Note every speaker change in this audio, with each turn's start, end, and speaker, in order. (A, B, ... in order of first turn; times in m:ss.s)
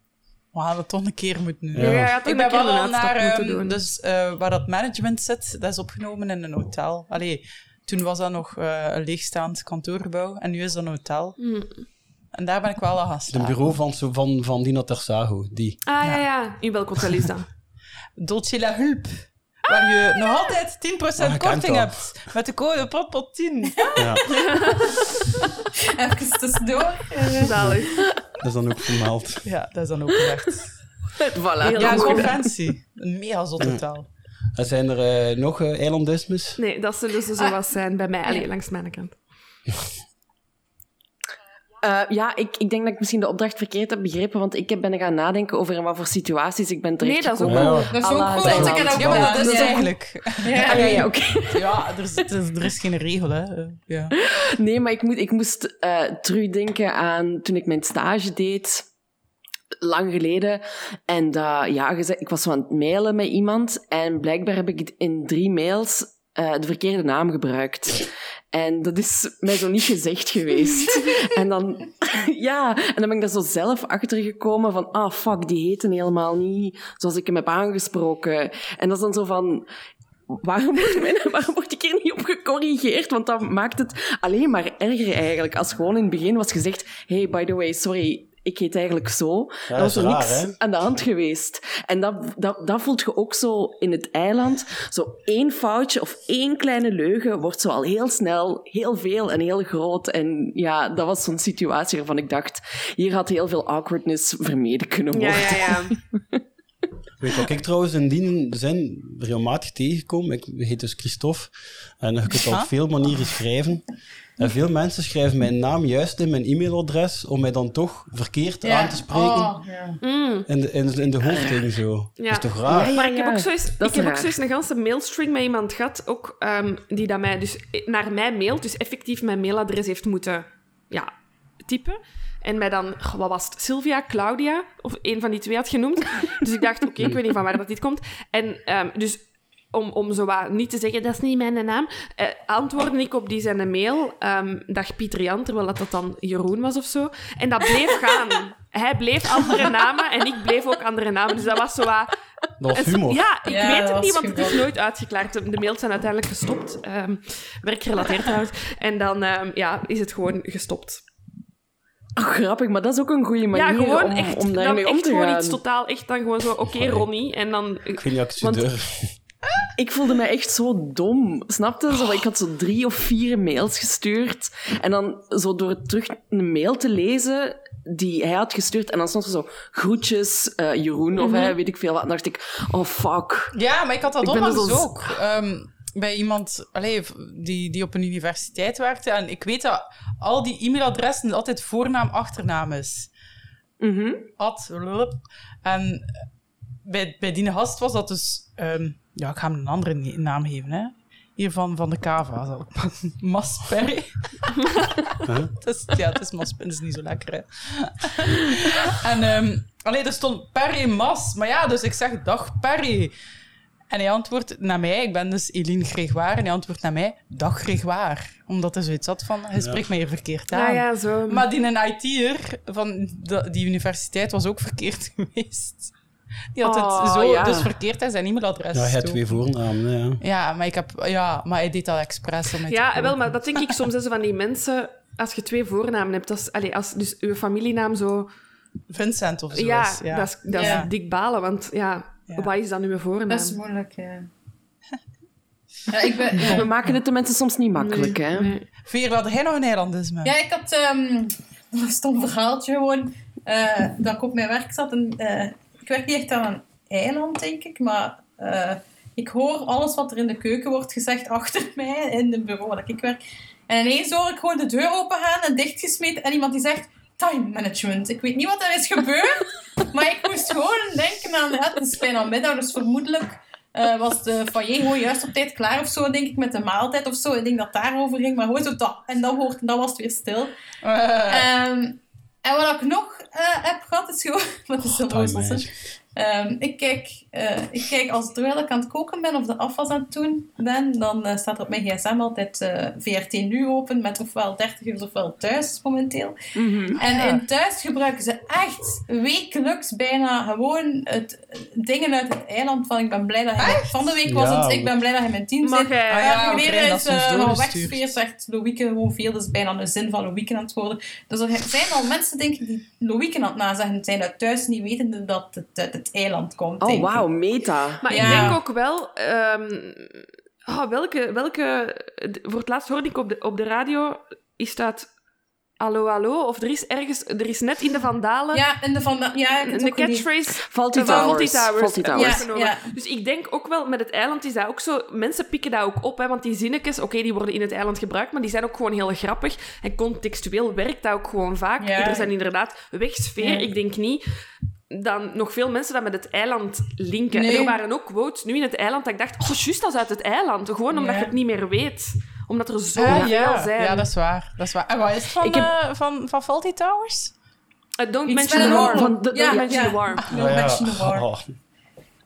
0:00.5-0:11.4 A
0:01.7-0:02.1 B
0:01.8-0:03.8 C
0:11.4-0:11.9 C
0:12.3-0:13.6 A
0:13.3-0:15.8 B
0:15.8-0:17.5 C
0:18.2-0:24.0 A
0:21.2-0:22.0 B
0:23.9-0:24.4 D
0:24.0-0:24.2 B
0:24.4-0:25.0 C
0:25.9-0:27.6 D
0:27.4-0:28.1 C
0:28.4-0:29.5 B
0:29.4-0:30.7 A
0:31.2-0:32.4 E
0:31.6-0:32.3 C
0:31.7-0:34.1 A
0:34.6-0:36.6 B
0:36.6-0:39.2 C
0:41.8-0:49.9 E
0:47.0-0:47.9 C
0:47.4-0:49.3 B
0:47.9-0:49.9 D
0:49.0-0:54.1 A
0:50.4-0:51.0 D
0:50.6-0:51.8 E
0:54.1-0:58.9 E
0:59.8-1:19.7 E
1:20.3-1:46.4 E
1:29.7-1:30.6 B
1:45.1-1:46.0 C
1:47.2-1:53.8 B
1:54.4-1:59.5 B
1:58.6-2:00.0 D
2:00.0-2:00.5 C
2:00.5-2:02.9 B
2:01.3-2:01.6 E
2:02.2-2:11.1 C
2:02.7-2:04.3 E
2:11.6-2:32.1 C
2:32.6-2:33.2 B
2:32.7-2:41.0 C
2:33.4-2:34.7 D
2:42.2-2:45.6 E
2:43.5-2:48.0 C
2:46.7-2:47.1 B
2:48.0-2:49.1 B
2:48.4-2:48.7 E
2:49.8-3:03.5 E
3:01.2-3:01.5 C
3:03.5-3:13.1 A
3:04.2-3:05.1 E
3:13.8-3:14.3 E
3:14.4-3:16.1 A
3:16.8-3:24.9 A
3:25.3-3:25.5 B
3:25.6-3:33.1 A
3:33.9-3:45.9 A
3:39.6-3:39.8 B
3:40.5-3:41.5 C
3:46.5-3:49.4 A
3:46.7-3:47.7 E
3:48.7-3:50.2 B
3:50.2-3:53.7 A
3:52.7-3:58.3 C
3:58.9-4:00.9 A
3:59.5-4:03.6 C
4:00.6-4:00.9 D
4:03.3-4:04.3 D
4:05.9-4:06.7 D
4:06.4-4:06.9 A
4:06.4-4:08.6 E
4:07.8-4:08.6 C
4:08.8-4:10.3 A
4:10.2-4:40.5 D
4:40.8-4:41.5 A
4:41.3-4:56.4 D
4:44.9-4:45.7 B
4:56.6-4:57.0 E
4:57.0-5:17.2 D
4:57.0-4:57.4 A
5:03.6-5:04.0 A
5:04.3-5:04.9 B
5:05.6-5:06.5 C
5:06.1-5:08.1 A
5:16.8-5:18.5 E
5:18.0-5:25.1 C
5:18.1-5:18.6 D
5:25.8-5:28.6 C
5:28.5-5:30.3 D
5:29.6-5:44.2 C
5:30.6-5:32.5 E
5:31.0-5:31.4 D
5:32.1-5:32.9 D
5:41.8-5:42.3 D
5:43.4-5:43.7 D
5:44.9-5:54.1 C
5:47.3-5:47.8 D
5:50.9-5:51.3 D
5:53.0-5:57.3 A
5:55.4-5:55.7 E
5:58.0-6:00.3 C
5:58.3-6:01.3 D
5:58.5-6:00.0 E
6:00.3-6:01.5 B